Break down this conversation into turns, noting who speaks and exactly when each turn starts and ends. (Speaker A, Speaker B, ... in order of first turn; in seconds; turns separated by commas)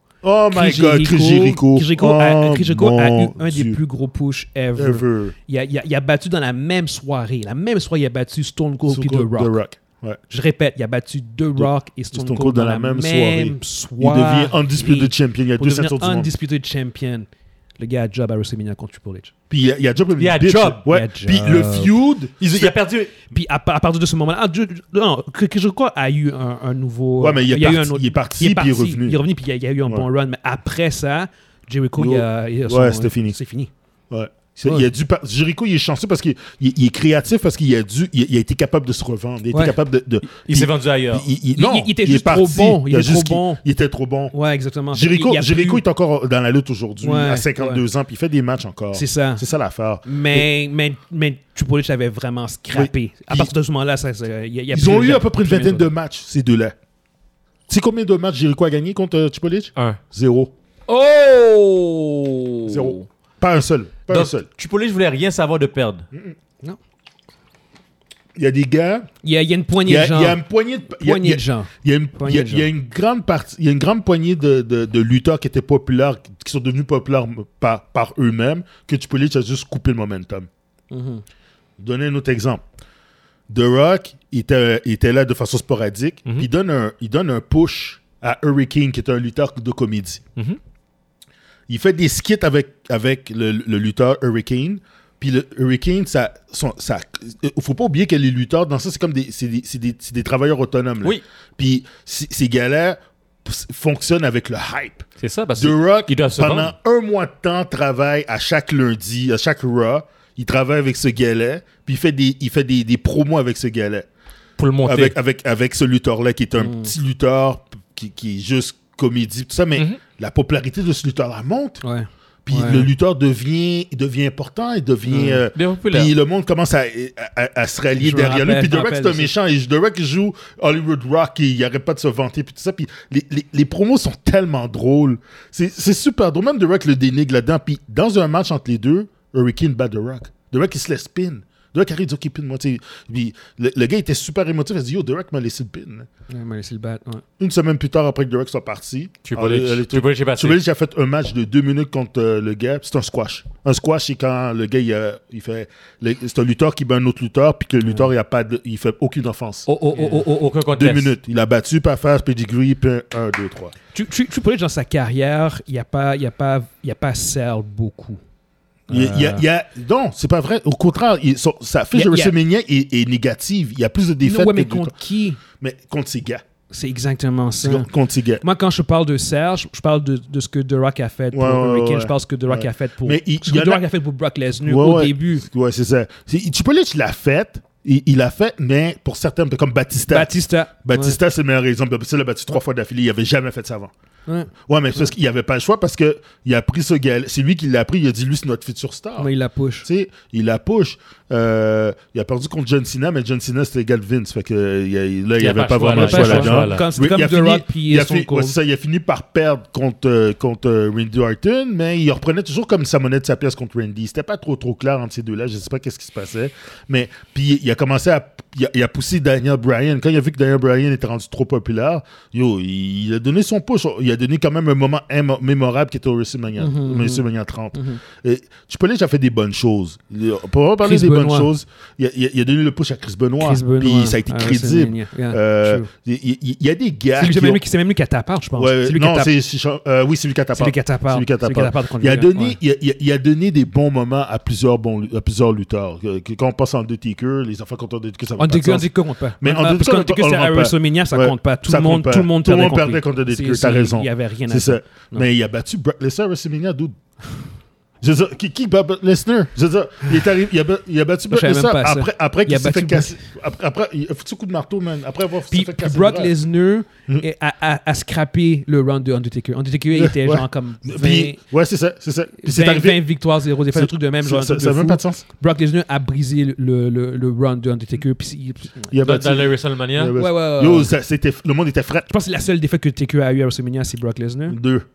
Speaker A: 0.2-3.8, Speaker B: 0.5-9.5, Speaker A: 4.8-5.3, Speaker A: 8.9-10.2, Speaker B: 10.3-17.3, Speaker A: 11.6-16.3, Speaker B: 17.8-19.3, Speaker A: 19.5-22.7, Speaker C: 20.2-20.8, Speaker B: 20.9-21.9, Speaker C: 22.4-23.1, Speaker B: 23.3-33.7, Speaker A: 27.2-29.2, Speaker A: 32.0-33.4, Speaker A: 34.1-44.3, Speaker C: 40.2-41.3, Speaker B: 41.5-43.6, Speaker B: 44.3-45.8, Speaker A: 44.9-50.4, Speaker B: 47.0-47.8, Speaker B: 48.9-49.4, Speaker B: 50.0-55.9, Speaker A: 52.7-53.5, Speaker A: 54.7-56.8, Speaker A: 57.7-60.5, Speaker C: 60.9-63.0, Speaker A: 62.7-64.5, Speaker C: 64.1-66.0, Speaker A: 68.3-69.1, Speaker B: 69.2-72.7, Speaker A: 69.8-80.5, Speaker B: 80.9-81.2, Speaker A: 81.8-82.6, Speaker A: 83.5-90.2, Speaker A: 91.7-114.1, Speaker C: 105.2-106.7, Speaker C: 114.6-115.2, Speaker A: 114.8-121.8, Speaker B: 116.6-116.9, Speaker B: 121.8-122.9, Speaker A: 122.4-146.1, Speaker B: 125.1-125.4, Speaker C: 125.5-126.1, Speaker B: 128.0-129.3, Speaker B: 146.3-147.2, Speaker A: 147.4-159.7, Speaker C: 149.2-150.6, Speaker C: 159.7-161.1, Speaker B: 159.9-160.2, Speaker A: 160.7-163.7, Speaker B: 163.9-168.2, Speaker A: 168.9-174.9, Speaker B: 168.9-169.4, Speaker B: 171.9-172.3, Speaker B: 174.2-175.4, Speaker A: 175.6-176.4, Speaker B: 176.7-177.9, Speaker A: 177.6-178.4, Speaker B: 178.4-185.5, Speaker A: 181.3-183.8, Speaker A: 184.6-193.9, Speaker B: 190.1-191.2, Speaker B: 194.3-195.1, Speaker A: 194.6-199.3, Speaker B: 199.2-199.9, Speaker A: 199.8-237.6, Speaker C: 205.4-206.9, Speaker B: 205.7-208.6, Speaker B: 226.6-228.0, Speaker B: 230.8-231.5, Speaker B: 233.4-235.9, Speaker B: 237.1-239.3, Speaker A: 238.5-256.9, Speaker B: 240.5-242.6, Speaker B: 248.4-255.3, Speaker A: 258.0-266.3, Speaker B: 261.3-263.2, Speaker B: 265.5-271.4, Speaker A: 269.9-273.1, Speaker B: 272.4-278.9, Speaker A: 273.7-275.2, Speaker A: 278.9-282.1, Speaker C: 279.0-280.1, Speaker B: 280.1-280.9, Speaker B: 282.1-284.6, Speaker A: 284.5-284.9